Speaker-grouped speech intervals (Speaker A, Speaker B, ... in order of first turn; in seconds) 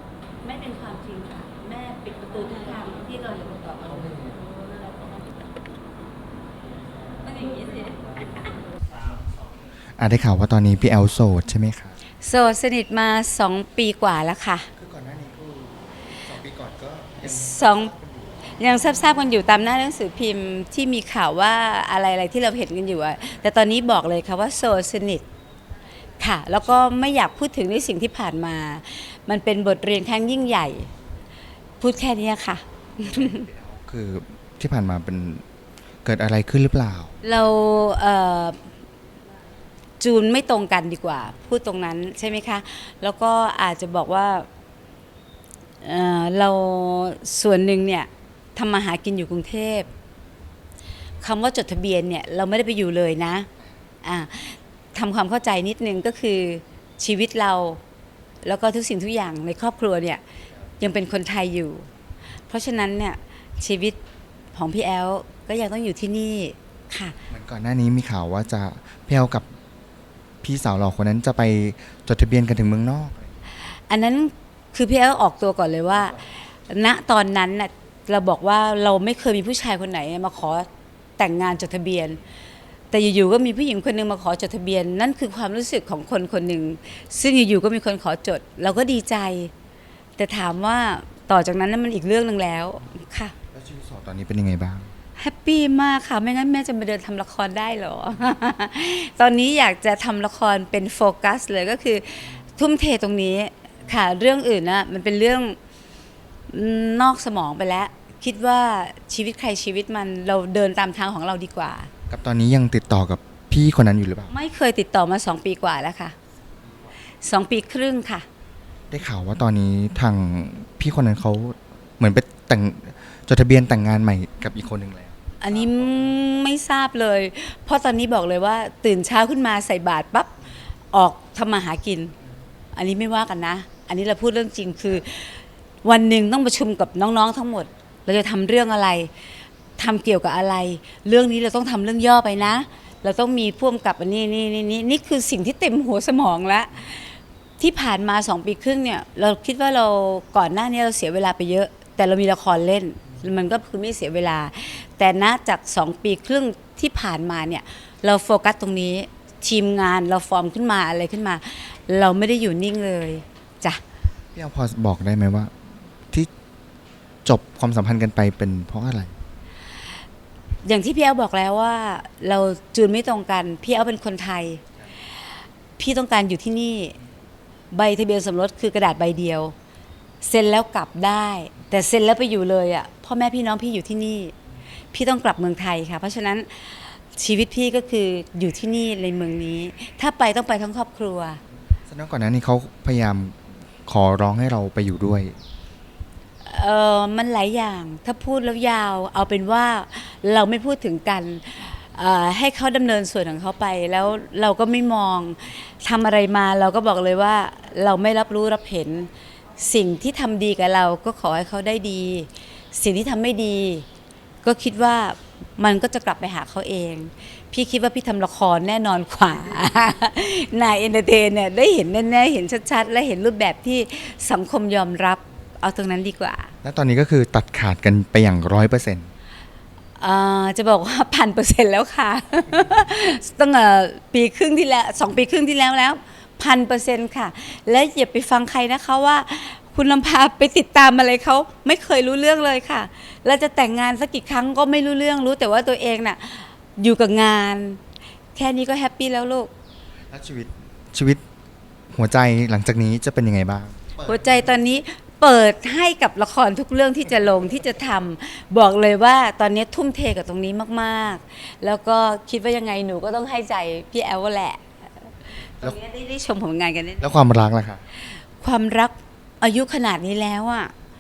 Speaker A: 0.4-5.1, 7.2-7.9, 12.2-14.7, 17.2-17.9, 18.6-25.3, 26.2-30.9, 31.8-33.5, 37.2-38.6, 40.0-44.5, 45.8-49.9, 51.2-53.5, 54.0-57.8, 58.4-60.2, 60.8-61.9, 62.5-64.0, 64.5-67.2, 73.9-82.2, 82.9-89.5, 90.2-93.3, 95.2-105.6, 106.5-111.9, 114.3-116.2, 117.2-118.3, 125.4-130.4, 130.9-132.1, 132.8-139.1, 139.8-163.8, 170.6-174.6, 175.8-177.0, 177.7-179.5, 180.2-184.3, 184.9-191.4, 196.4-213.9, 214.4-226.5, 230.0-247.8, 248.3-249.5, 254.0-267.1, 268.4-270.7
Speaker B: 10.0-12.0, 14.8-18.4, 33.0-35.4, 36.0-37.1, 67.3-69.5, 70.4-73.3, 93.5-94.9, 112.1-114.3, 118.9-125.8, 164.3-165.5, 167.2-169.2, 191.9-195.4, 226.6-229.1, 250.1-251.2, 251.9-254.1, 267.0-267.8